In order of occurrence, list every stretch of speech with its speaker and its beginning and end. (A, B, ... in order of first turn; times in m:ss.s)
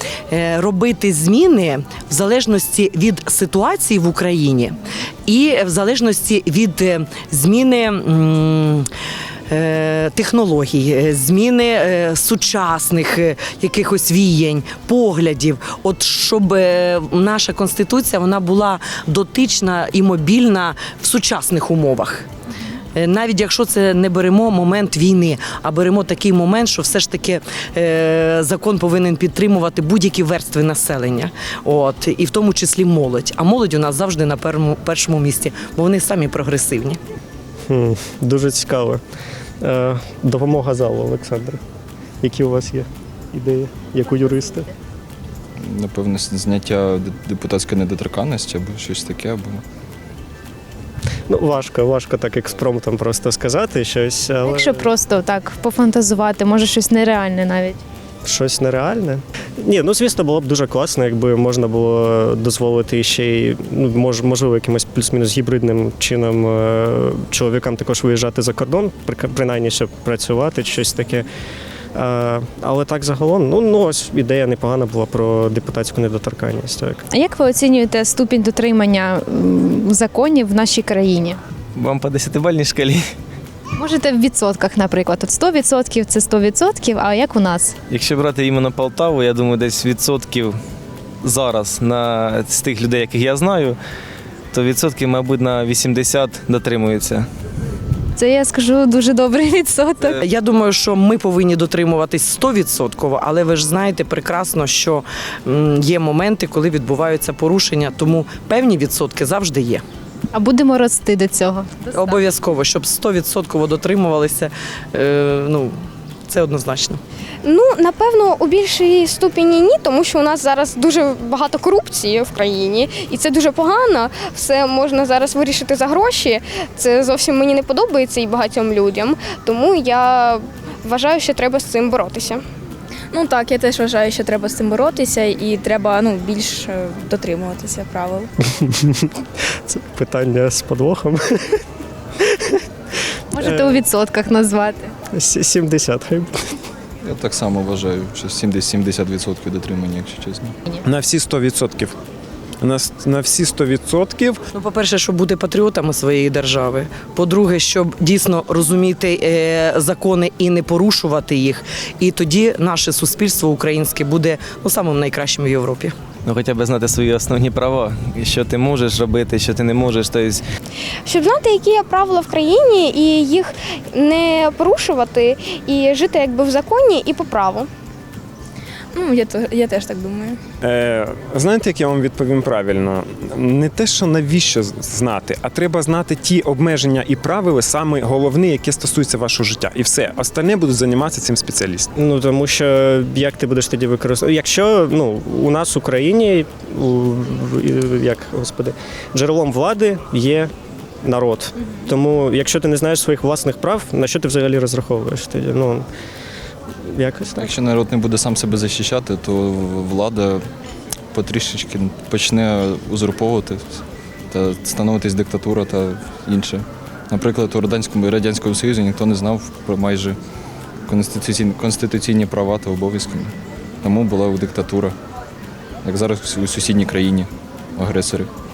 0:00.3-0:04.8 A
0:05.3-0:08.9 A
0:09.5-0:22.2 A
0:23.0-0:37.0 A
0:37.7-0:39.0 B
0:39.6-0:41.6 B
0:42.2-0:44.7 B
0:45.6-0:49.6 C
0:51.3-0:54.9 B
0:54.5-0:57.8 D
0:58.2-1:11.3 B
1:12.0-1:17.0 B
1:17.1-1:21.4 D
1:21.8-1:23.0 E
1:23.8-1:27.8 D
1:27.9-1:30.6 E
1:31.2-1:33.8 E
1:34.5-1:37.3 E
1:38.2-1:40.2 D
1:40.2-1:49.8 A
1:50.3-1:52.2 D
1:51.9-1:55.7 A
1:56.3-1:57.0 A
1:57.4-2:12.4 F
2:13.1-2:18.3 G
2:18.5-2:21.6 B
2:22.3-2:22.6 B
2:23.3-2:24.9 D
2:23.4-2:23.8 B
2:25.1-2:26.6 B
2:27.0-2:30.6 C
2:30.8-2:32.0 H
2:32.6-2:34.4 H
2:34.5-2:45.9 A
2:46.3-2:50.4 E
2:51.0-2:57.7 F
2:59.0-3:00.4 G
3:00.6-3:11.9 H
3:12.0-3:20.5 B
3:21.0-3:25.9 B
3:26.9-3:27.5 B
3:27.4-3:30.4 C
3:31.1-3:40.2 C
3:40.9-3:45.0 C
3:45.8-3:48.3 C